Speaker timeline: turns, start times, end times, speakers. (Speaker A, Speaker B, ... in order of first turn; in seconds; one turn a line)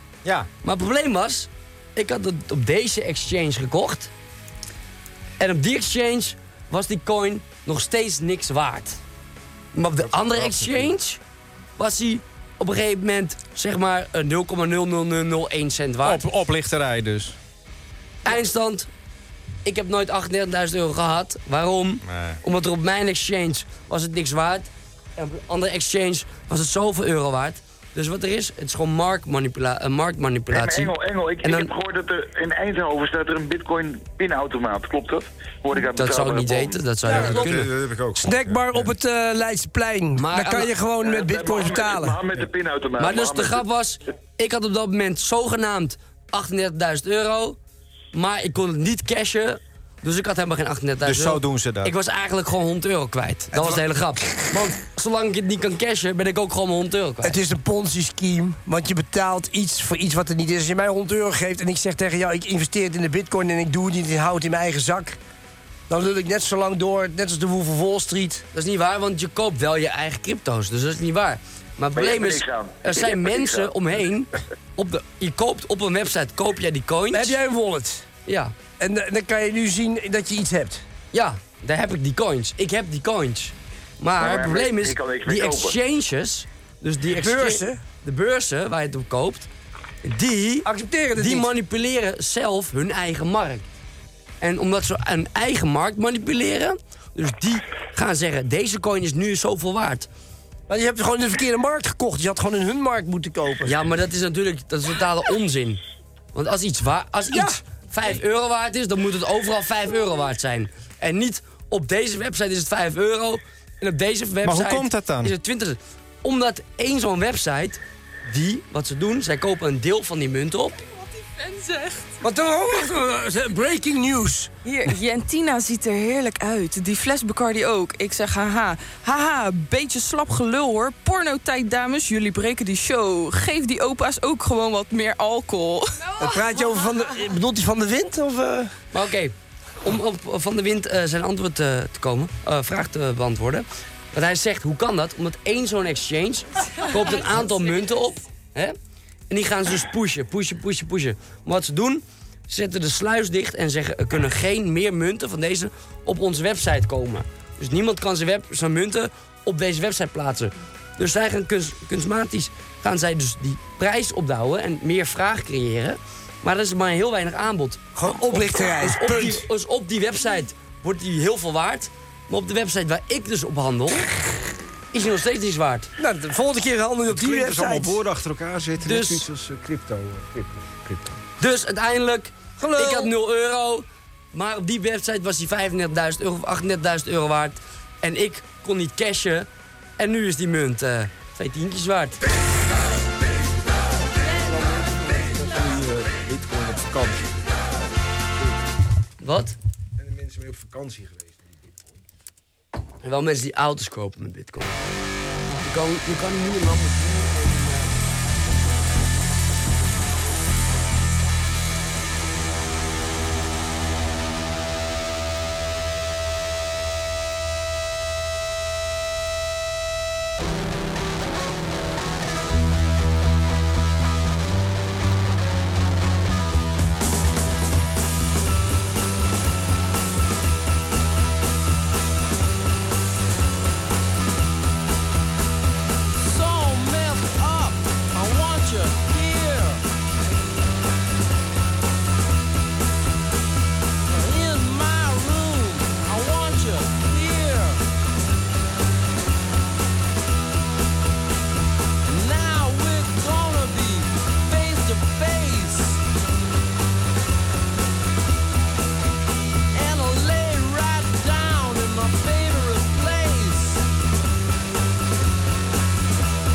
Speaker A: 0.6-4.1
Speaker A: 5.4-9.0
Speaker A: 9.7-11.2
Speaker B: 10.0-10.9
Speaker A: 11.8-16.2
Speaker C: 16.0-17.4
Speaker A: 18.2-18.9
Speaker A: 19.6-31.7
Speaker C: 22.0-22.4
Speaker D: 30.5-37.1
Speaker A: 35.8-37.7
Speaker E: 37.0-37.4
Speaker B: 37.1-38.9
Speaker C: 37.1-37.7
Speaker E: 38.1-42.2
Speaker A: 40.2-40.7
Speaker D: 41.0-43.6
Speaker A: 43.0-47.6
Speaker A: 48.1-57.4
Speaker C: 51.0-51.9
Speaker E: 53.5-54.5
Speaker E: 57.2-65.2
Speaker E: 65.9-68.4
Speaker A: 68.5-77.4
Speaker D: 71.9-73.7
Speaker E: 77.1-78.1
Speaker A: 78.2-78.6
Speaker E: 78.7-80.8
Speaker A: 81.1-89.5
Speaker D: 84.2-85.8
Speaker E: 87.1-87.8
Speaker A: 90.0-93.6
Speaker E: 90.6-91.5
Speaker A: 94.4-100.1
Speaker E: 100.7-103.8
Speaker A: 103.7-105.8
Speaker A: 106.3-120.8
Speaker E: 107.3-107.6
Speaker C: 114.4-115.3
Speaker F: 120.8-122.1
Speaker E: 122.2-124.5
Speaker F: 124.6-136.3
Speaker E: 136.2-138.7
Speaker A: 138.9-148.7
Speaker A: 149.3-174.1
Speaker E: 167.9-169.4
Speaker A: 174.9-175.9
Speaker E: 176.0-178.0
Speaker B: 177.1-181.2
Speaker A: 178.8-179.3
Speaker A: 181.4-192.2
Speaker E: 182.6-183.1
Speaker E: 194.4-195.3
Speaker B: 195.3-197.4
Speaker A: 199.2-199.6
Speaker B: 200.0-201.4
Speaker A: 203.0-204.8
Speaker A: 205.6-207.9
Speaker G: 236.2-239.8
Speaker G: 244.1-247.8
Speaker G: 252.1-256.0
Speaker G: 259.7-263.9